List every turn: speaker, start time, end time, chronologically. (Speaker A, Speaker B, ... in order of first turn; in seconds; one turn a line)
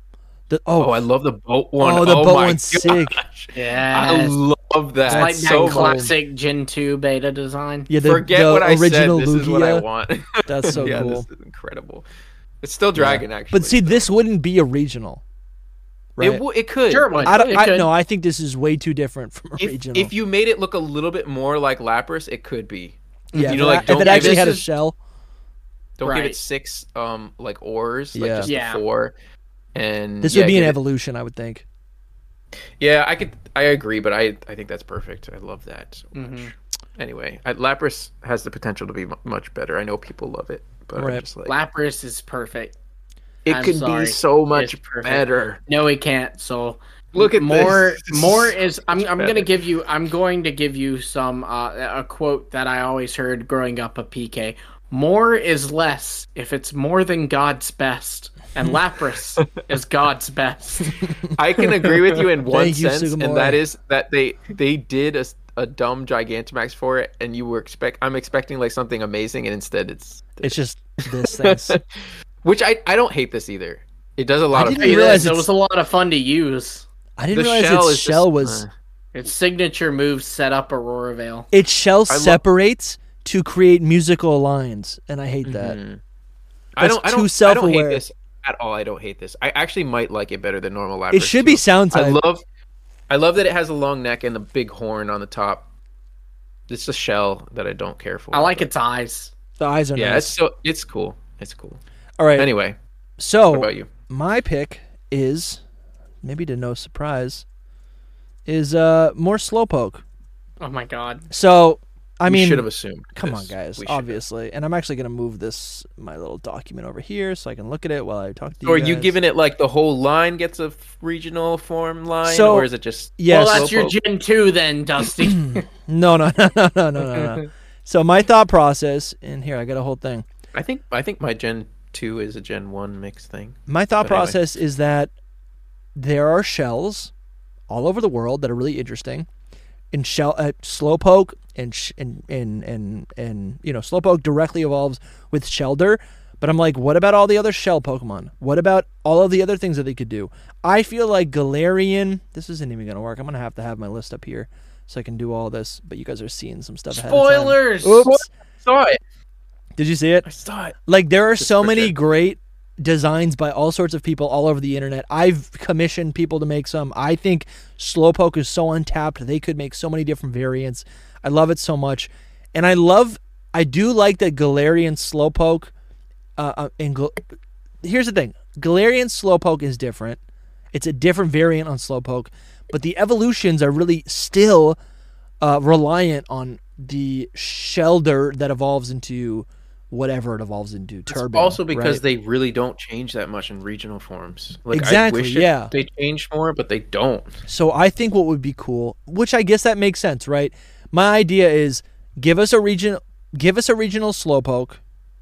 Speaker A: 0.5-0.9
Speaker B: 0.8-6.1
Speaker A: 1.8-3.2
Speaker C: 3.5-4.4
Speaker A: 5.1-6.1
Speaker C: 5.1-7.9
Speaker A: 7.9-9.8
Speaker B: 8.0-12.0
Speaker A: 10.4-11.2
Speaker B: 12.6-14.1
Speaker A: 12.9-15.2
Speaker A: 16.2-16.4
Speaker B: 16.2-17.4
Speaker C: 16.9-17.9
Speaker A: 17.2-20.1
Speaker B: 19.6-24.5
Speaker C: 23.3-24.6
Speaker A: 23.3-25.0
Speaker B: 26.0-29.1
Speaker C: 26.0-26.4
Speaker A: 28.1-28.5
Speaker C: 28.4-28.8
Speaker B: 29.7-30.8
Speaker A: 30.2-31.6
Speaker B: 32.8-41.5
Speaker C: 36.1-36.5
Speaker A: 41.0-41.2
Speaker C: 41.5-42.7
Speaker B: 43.4-45.6
Speaker C: 43.5-60.9
Speaker B: 47.1-49.5
Speaker A: 61.0-61.3
Speaker B: 61.4-75.3
Speaker A: 62.5-63.6
Speaker A: 70.4-71.8
Speaker A: 74.5-75.5
Speaker C: 74.8-76.8
Speaker A: 77.2-78.6
Speaker B: 77.3-78.7
Speaker C: 79.1-81.5
Speaker A: 81.5-85.8
Speaker B: 82.1-82.4
Speaker B: 85.4-86.0
Speaker B: 86.8-92.4
Speaker A: 86.8-88.0
Speaker A: 91.1-92.2
Speaker B: 93.1-95.7
Speaker B: 96.7-98.7
Speaker C: 98.3-99.3
Speaker A: 99.6-100.3
Speaker B: 99.9-101.8
Speaker A: 102.2-102.5
Speaker B: 102.3-102.8
Speaker A: 103.2-105.6
Speaker B: 103.5-103.9
Speaker A: 106.2-107.4
Speaker A: 108.5-110.0
Speaker C: 110.6-111.3
Speaker A: 111.3-119.1
Speaker B: 112.2-114.2
Speaker B: 118.6-124.0
Speaker A: 122.2-123.7
Speaker C: 123.3-125.7
Speaker A: 125.2-130.2
Speaker B: 130.5-134.4
Speaker A: 133.7-135.1
Speaker A: 135.9-137.1
Speaker A: 137.7-139.3
Speaker A: 139.9-158.2
Speaker C: 156.9-158.1
Speaker B: 158.0-159.0
Speaker A: 159.8-160.3
Speaker B: 160.2-160.8
Speaker A: 160.9-175.7
Speaker B: 161.4-161.9
Speaker A: 176.4-177.2
Speaker A: 177.8-180.2
Speaker A: 180.7-184.8
Speaker A: 185.4-192.0
Speaker B: 191.1-197.4
Speaker A: 194.7-195.7
Speaker A: 197.4-204.8